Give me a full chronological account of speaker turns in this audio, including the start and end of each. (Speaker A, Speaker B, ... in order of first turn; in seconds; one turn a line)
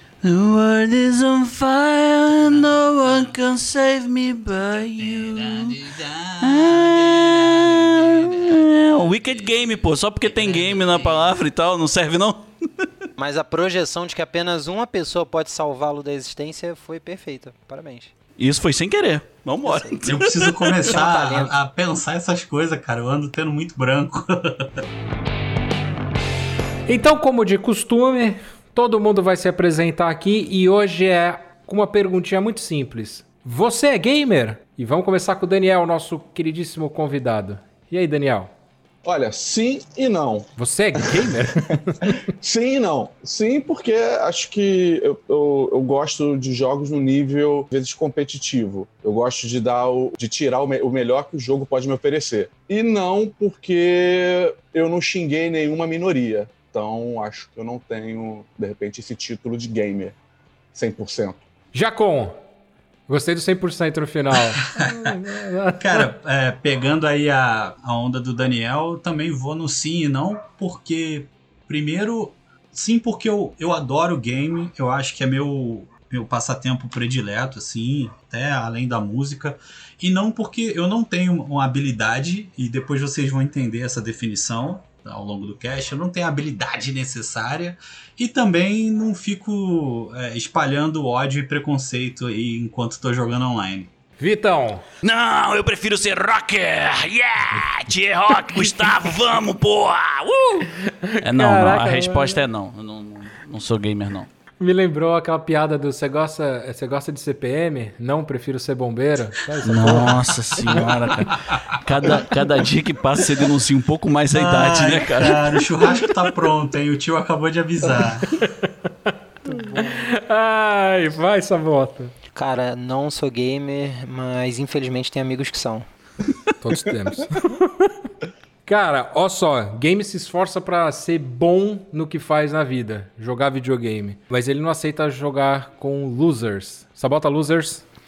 Speaker A: 0.2-5.8
Speaker B: 2.5-3.1
Speaker B: 5.0-8.7
Speaker A: 6.4-12.9
Speaker B: 10.3-11.3
Speaker C: 13.2-18.1
Speaker A: 18.4-20.9
Speaker C: 19.6-20.0
Speaker B: 20.1-24.8
Speaker C: 20.8-21.6
Speaker D: 26.9-38.5
Speaker E: 39.0-41.2
Speaker D: 40.6-42.2
Speaker E: 42.0-60.1
Speaker E: 60.7-61.4
Speaker D: 61.7-62.4
Speaker D: 63.1-66.1
Speaker B: 64.6-65.1
Speaker B: 65.8-93.9
Speaker D: 94.2-94.8
Speaker A: 95.0-100.7
Speaker D: 101.0-102.4
Speaker A: 101.2-104.3
Speaker D: 104.6-110.8
Speaker A: 109.6-115.6
Speaker B: 114.3-118.5
Speaker D: 118.3-118.7
Speaker D: 119.5-122.1
Speaker C: 119.5-119.9
Speaker C: 122.3-125.9
Speaker D: 126.6-127.9
Speaker D: 128.7-137.8